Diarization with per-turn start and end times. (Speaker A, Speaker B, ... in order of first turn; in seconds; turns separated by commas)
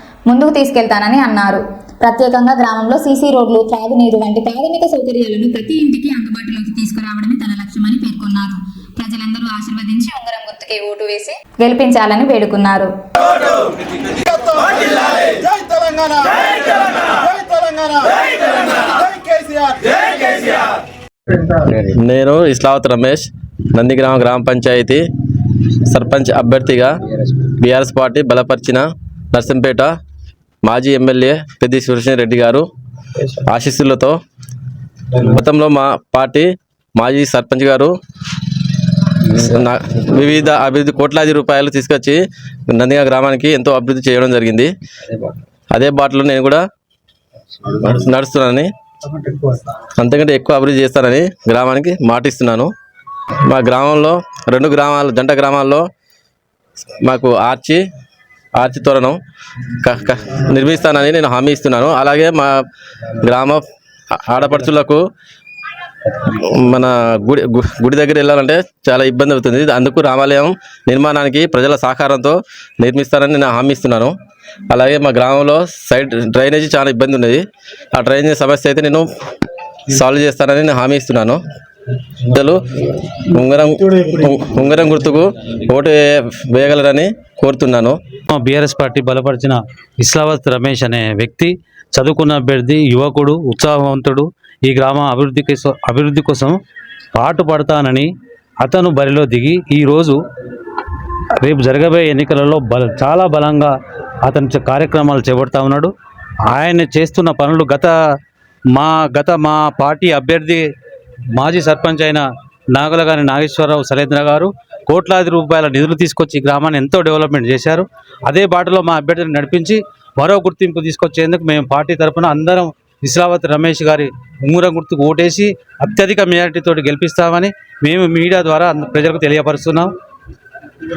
Speaker A: 0.3-13.3, Speaker B: 14.3-20.4, Speaker A: 15.2-15.5, Speaker C: 21.7-25.0, Speaker C: 25.8-26.9, Speaker C: 27.4-29.9, Speaker C: 30.6-32.6, Speaker C: 33.3-34.2, Speaker C: 35.1-37.9, Speaker C: 39.2-44.7, Speaker C: 45.7-46.6, Speaker C: 47.6-48.7, Speaker B: 49.1-49.7, Speaker C: 50.0-52.7, Speaker C: 53.5-55.8, Speaker C: 57.0-57.8, Speaker C: 58.6-59.2, Speaker C: 59.8-62.5, Speaker C: 63.1-63.6, Speaker C: 64.1-65.0, Speaker C: 66.2-74.1, Speaker C: 74.7-79.0, Speaker C: 79.9-81.4, Speaker C: 82.2-82.6, Speaker C: 83.3-88.0, Speaker D: 88.3-96.6, Speaker D: 97.1-100.2, Speaker D: 101.4-105.9, Speaker D: 106.5-107.9, Speaker D: 108.7-110.7, Speaker D: 111.3-129.9